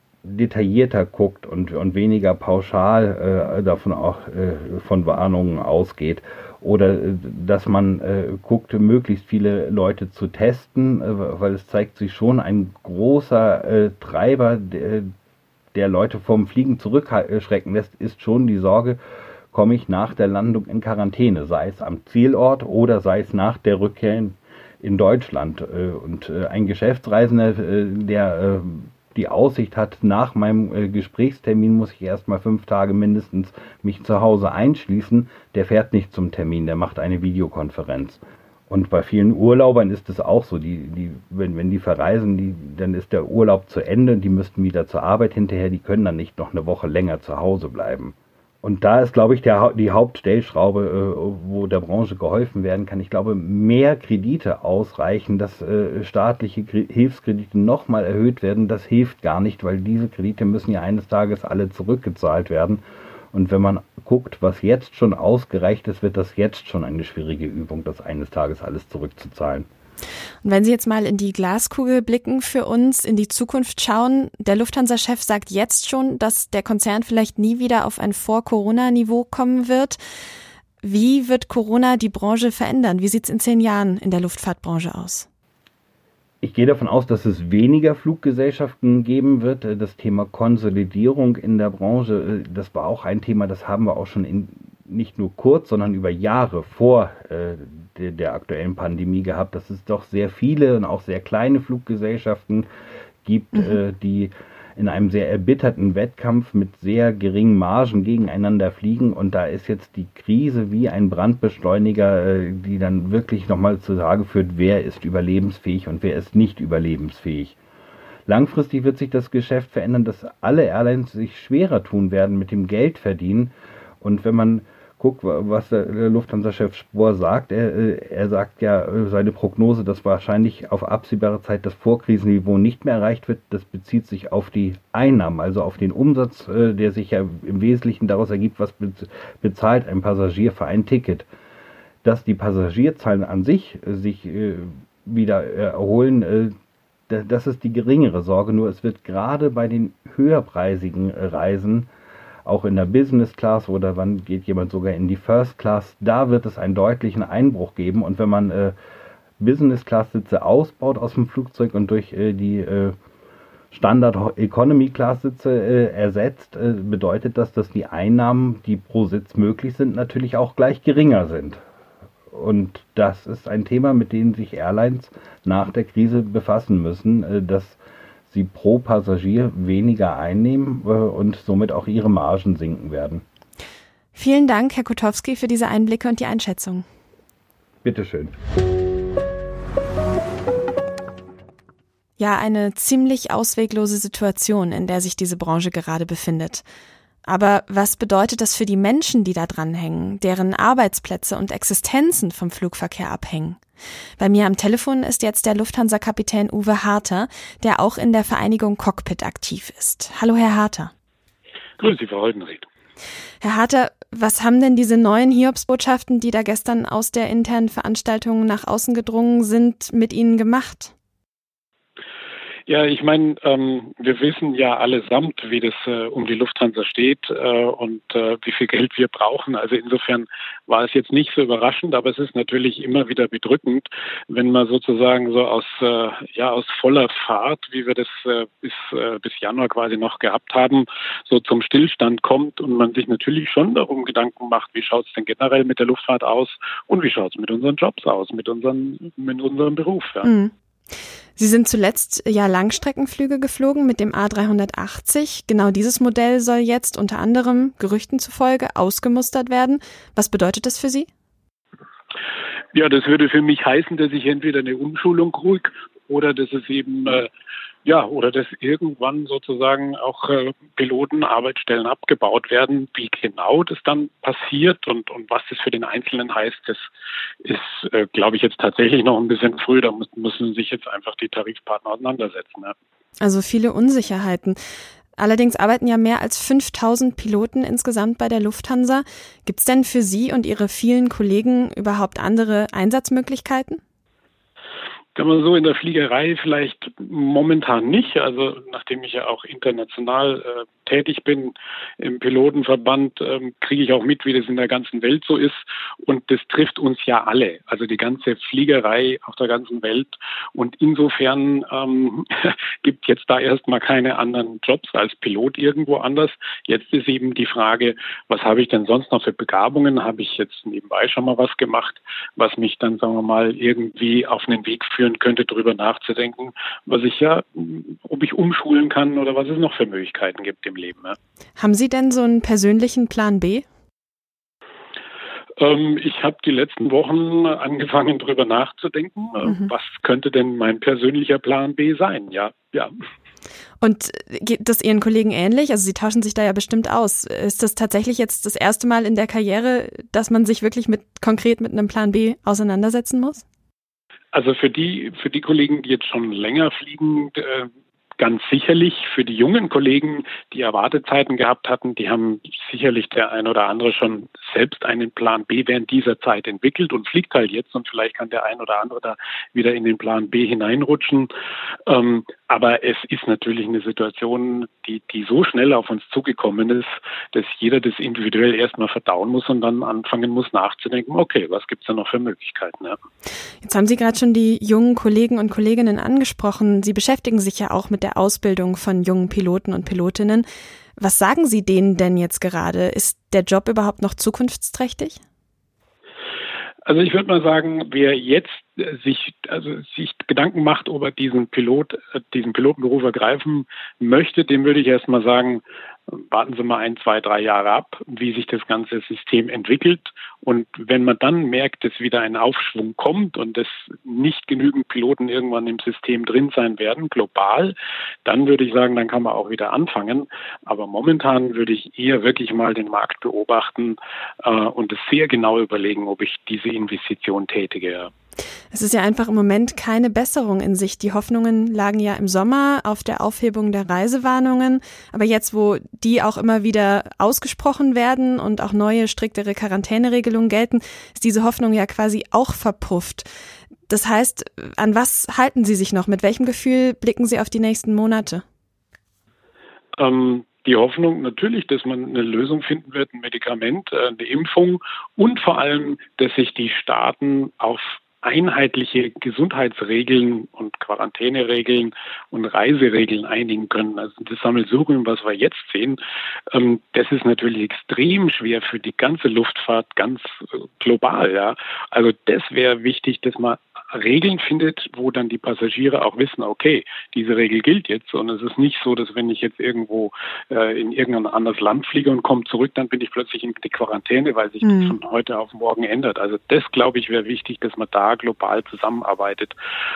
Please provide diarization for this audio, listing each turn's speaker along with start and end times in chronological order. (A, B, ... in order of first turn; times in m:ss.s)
0:00.2-0:15.1 A
0:15.7-0:19.0 A
0:19.5-1:02.8 A
1:03.3-1:09.7 A
1:10.4-1:20.0 B
1:20.8-1:25.3 B
1:26.4-1:42.7 A
1:43.2-1:57.6 A
1:58.3-2:21.2 A
2:22.0-2:26.5 A
2:27.1-2:31.9 A
2:32.4-2:38.8 A
2:39.4-2:42.9 A
2:43.7-2:51.6 A
2:52.3-3:03.2 A
3:04.1-3:06.8 B
3:07.8-3:08.3 A
3:12.2-3:16.6 B
3:17.2-3:23.6 B
3:24.2-3:30.9 B
3:31.8-3:32.6 C
3:33.4-3:40.9 B
3:42.7-4:10.3 C
4:10.2-4:10.5 B
4:11.4-4:21.1 B
4:22.7-4:27.3 C
4:27.8-4:36.9 C
4:37.4-4:42.7 C
4:43.2-4:44.6 B
4:45.2-4:53.8 B
4:55.2-5:31.2 C
5:31.6-5:33.6 B
5:35.6-5:42.9 C
5:43.8-5:53.4 B
5:54.3-6:11.3 C
6:11.9-6:23.0 C
6:23.6-6:30.4 B
6:31.0-6:35.2 B
6:36.9-7:08.1 C
7:08.7-7:23.3 B
7:23.9-7:28.4 B
7:30.0-7:46.0 C
7:46.5-8:09.6 C
8:04.6-8:04.9 B